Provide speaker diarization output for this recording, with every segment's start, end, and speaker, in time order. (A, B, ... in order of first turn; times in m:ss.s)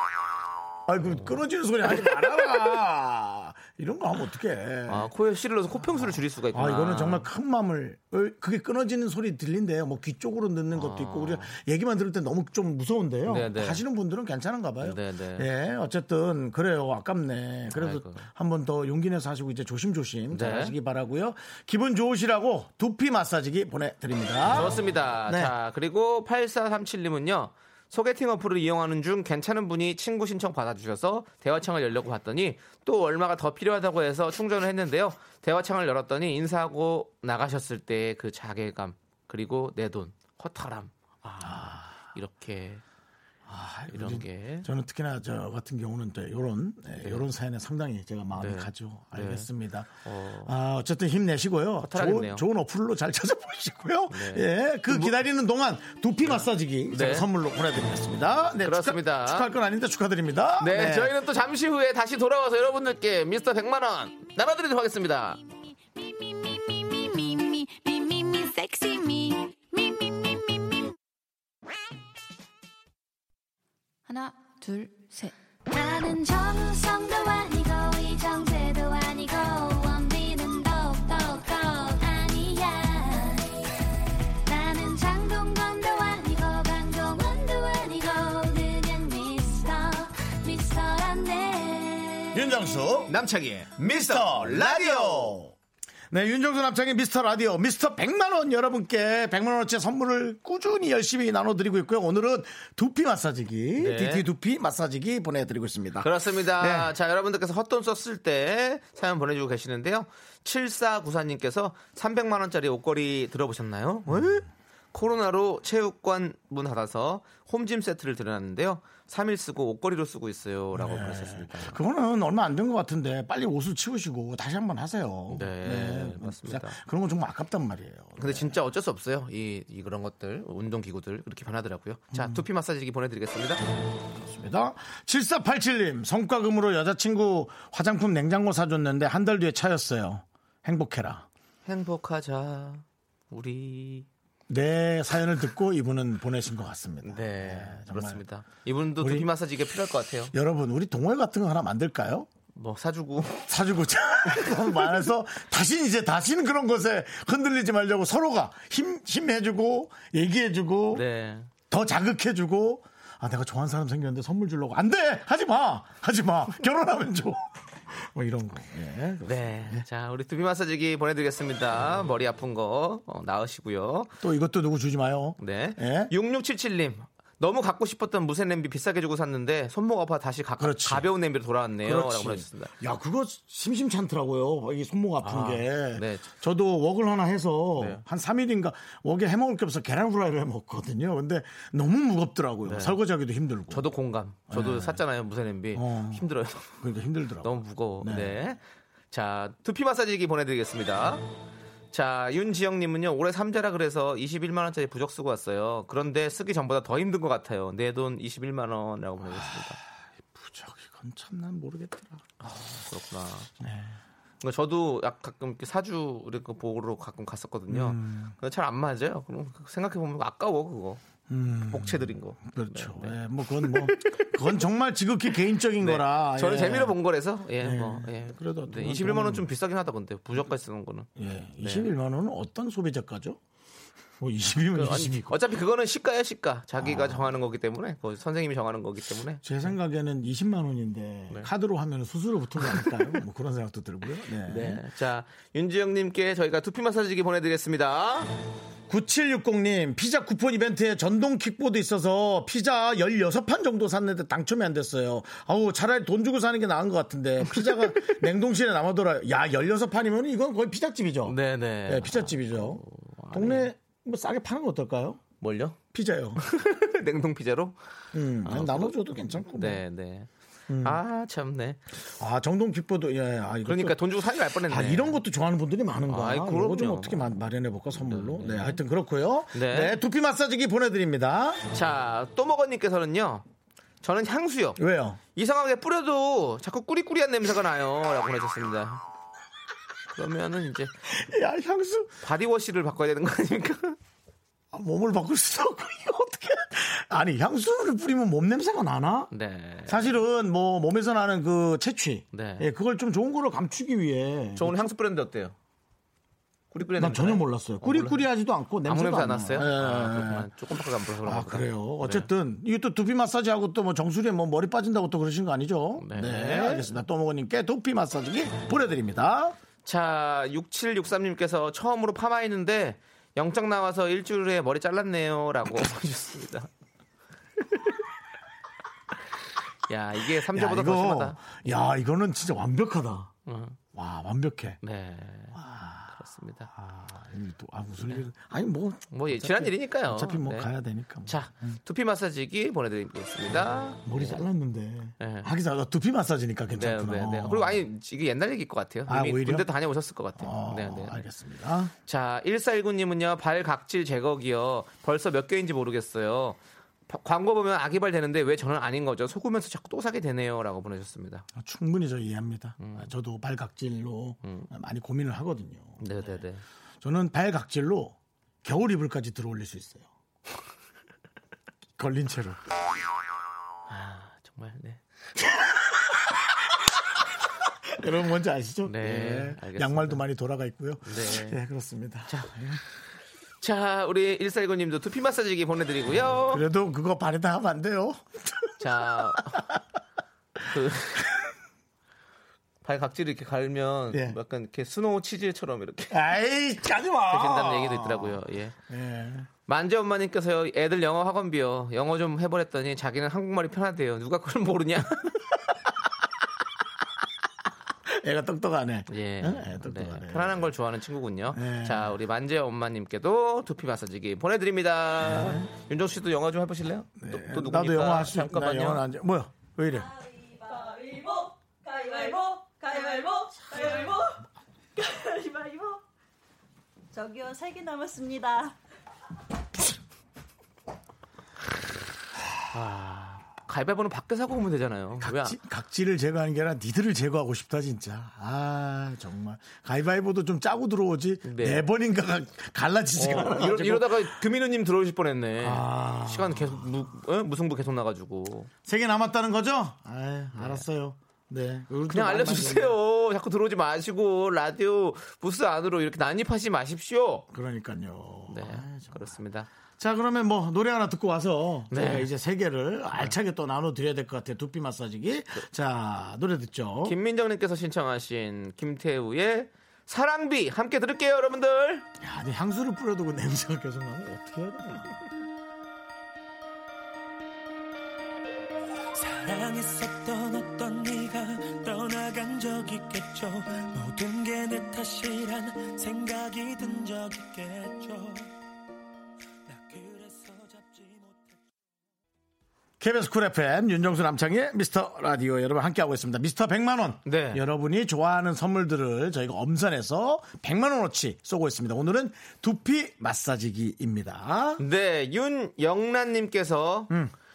0:00.9-0:05.1 A
0:01.9-0:02.7 B
0:04.9-0:07.3 B
0:05.9-0:25.5 A
0:10.7-0:11.6 B
0:13.3-0:13.8 B
0:14.8-0:15.5 B
0:17.7-0:18.3 B
0:20.3-0:20.8 B
0:24.5-0:42.8 B
0:41.4-0:42.0 A
0:43.5-1:01.2 A
0:43.9-0:44.7 B
0:47.0-0:47.3 B
0:48.4-0:49.5 B
0:50.0-0:50.5 B
0:51.8-0:52.5 B
0:54.1-0:55.1 B
0:56.3-0:57.3 B
0:58.6-0:59.5 B
1:00.6-1:05.4 B
1:06.5-1:10.8 C
1:15.7-1:23.5 C
1:24.5-1:32.4 C
1:32.3-1:33.2 A
1:33.1-1:35.4 B
1:33.8-1:35.6 A
1:36.1-1:46.9 A
1:43.8-1:44.3 B
1:46.0-2:01.8 B
1:54.1-1:54.4 A
2:00.8-2:08.6 A
2:05.3-2:06.8 B
2:08.2-2:13.6 B
2:12.1-2:12.4 A
2:14.2-2:21.3 A
2:21.6-2:24.1 B
2:24.5-2:28.2 A
2:27.0-2:30.3 B
2:29.0-2:29.3 A
2:30.3-2:32.3 A
2:32.6-2:33.5 B
2:33.5-2:41.0 A
2:34.3-2:34.8 B
2:40.9-2:41.5 B
2:41.7-2:49.8 A
2:49.3-2:54.1 B
2:54.2-2:56.1 A
2:55.4-3:02.7 B
3:00.6-3:01.1 A
3:01.8-3:13.9 A
3:05.2-3:06.3 B
3:07.8-3:08.0 B
3:12.7-3:13.0 B
3:13.7-3:16.8 B
3:14.5-3:15.0 A
3:15.7-3:16.2 A
3:16.8-3:18.4 A
3:17.4-3:21.2 B
3:21.9-3:29.8 B
3:29.2-3:32.2 A
3:32.4-3:33.5 B
3:33.6-3:34.0 A
3:34.4-3:41.0 B
3:37.7-3:38.3 A
3:41.3-3:47.0 A
3:41.7-3:44.3 B
3:45.8-3:51.1 B
3:47.6-3:49.5 A
3:51.2-3:53.4 A
3:51.6-3:51.9 B
3:54.2-3:55.4 A
3:54.7-3:59.4 B
3:56.8-3:57.3 A
3:59.4-4:04.8 A
4:02.6-4:03.2 B
4:04.4-4:08.3 B
4:08.9-4:25.2 A
4:17.6-4:18.1 B
4:21.3-4:23.7 B
4:25.4-4:25.8 B
4:25.9-4:26.4 A
4:26.4-4:27.8 B
4:28.1-4:29.8 A
4:28.4-4:30.3 B
4:30.7-4:31.0 A
4:30.8-4:31.9 B
4:32.1-4:34.0 A
4:33.6-4:35.2 B
4:34.7-4:41.6 A
4:36.1-4:37.3 B
4:38.0-4:38.8 B
4:39.5-4:40.0 B
4:41.7-4:43.4 B
4:44.0-4:44.8 B
4:44.8-4:45.2 A
4:45.4-4:49.0 B
4:50.1-4:50.9 B
4:51.1-4:52.1 A
4:52.2-4:54.0 B
4:54.7-4:59.3 A
4:59.3-5:00.1 B
4:59.9-5:04.9 A
5:02.3-5:02.7 B
5:04.6-5:05.6 B
5:06.7-5:08.3 B
5:07.0-5:10.5 A
5:08.9-5:12.3 B
5:11.2-5:19.6 A
5:16.0-5:16.9 B
5:19.8-5:26.7 B
5:29.9-5:31.6 B
5:30.5-5:33.3 A
5:33.5-5:33.8 B
5:33.9-5:34.8 A
5:34.8-5:35.6 B
5:35.5-5:36.2 A
5:36.1-5:36.7 B
5:36.7-5:41.8 A
5:39.1-5:40.7 B
5:41.3-5:44.4 B
5:44.0-5:47.8 A
5:45.2-5:45.5 B
5:46.7-5:51.2 B
5:49.1-5:49.7 A
5:50.4-5:51.9 A
5:52.1-5:56.6 B
5:57.1-6:01.5 B
6:01.6-6:06.4 A
6:02.8-6:03.1 B
6:04.4-6:04.7 B
6:06.0-6:06.6 B
6:07.0-6:10.1 A
6:12.0-6:12.6 A
6:13.9-6:15.0 B
6:17.9-6:22.8 A
6:18.8-6:20.2 B
6:21.0-6:21.6 B
6:23.6-6:26.6 B
6:26.5-6:29.8 A
6:28.8-6:29.6 B
6:30.6-6:31.3 B
6:32.8-6:36.2 B
6:34.1-6:34.4 A
6:36.1-6:39.5 A
6:37.3-6:38.8 B
6:39.7-6:45.4 B
6:48.1-6:50.7 A
6:49.1-6:59.0 B
6:51.5-6:52.2 A
6:55.2-6:55.7 A
6:57.2-7:00.1 A
7:00.1-7:04.4 D
7:05.0-7:06.0 D
7:07.1-7:08.7 D
7:12.7-7:15.6 B
7:15.2-7:24.4 A
7:21.4-7:21.9 B
7:23.2-7:28.7 B
7:25.6-7:26.9 A
7:28.8-7:33.0 A
7:30.6-7:30.8 B
7:32.1-7:37.4 B
7:37.5-7:39.3 A
7:38.5-7:39.7 B
7:40.0-7:47.2 A
7:41.9-7:42.3 B
7:47.0-7:52.0 B
7:52.2-7:55.3 A
7:59.2-8:08.5 E
8:09.7-8:11.6 E
8:13.0-8:24.8 A
8:17.2-8:17.6 B
8:24.8-8:27.1 B